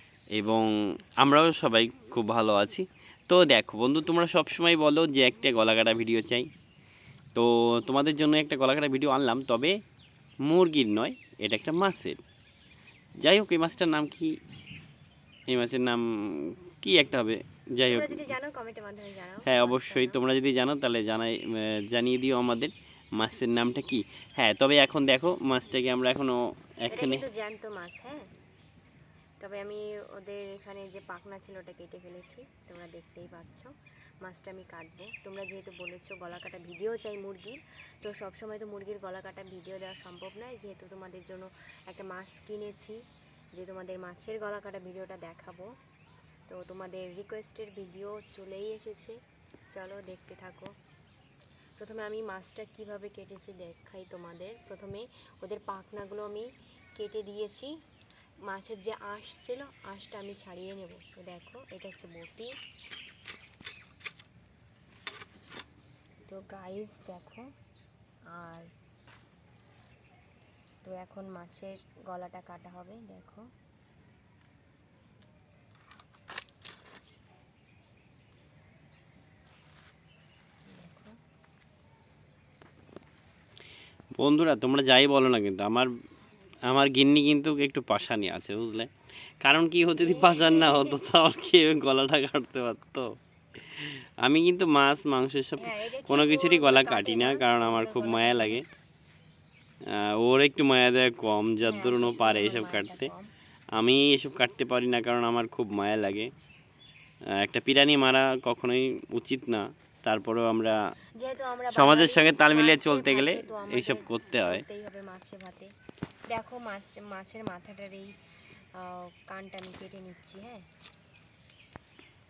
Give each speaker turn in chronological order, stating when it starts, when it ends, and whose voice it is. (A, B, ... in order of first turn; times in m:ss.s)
0:00.3-0:06.5 A
0:07.4-0:09.8 A
0:10.4-0:12.2 A
0:13.2-0:14.4 A
0:15.5-0:18.3 A
0:17.9-0:20.2 B
0:19.4-0:27.2 A
0:26.9-0:28.2 B
0:29.4-0:33.7 B
0:34.2-0:43.0 B
0:43.6-0:45.7 B
0:46.5-0:49.2 B
0:49.7-0:50.7 B
0:51.8-0:57.7 B
0:58.5-1:02.5 B
1:06.3-1:07.5 B
1:08.3-1:08.7 B
1:10.8-1:13.5 B
1:20.7-1:21.2 B
1:24.2-1:25.9 A
1:26.6-1:28.9 A
1:29.4-1:33.1 A
1:30.0-1:31.0 B
1:33.7-1:38.7 A
1:35.6-1:38.6 B
1:39.8-1:43.1 A
1:41.6-1:43.3 B
1:43.8-1:46.3 A
1:47.3-1:50.8 A
1:51.2-1:55.7 B
1:51.7-1:54.6 A
1:56.3-1:58.1 B
1:58.8-2:00.6 B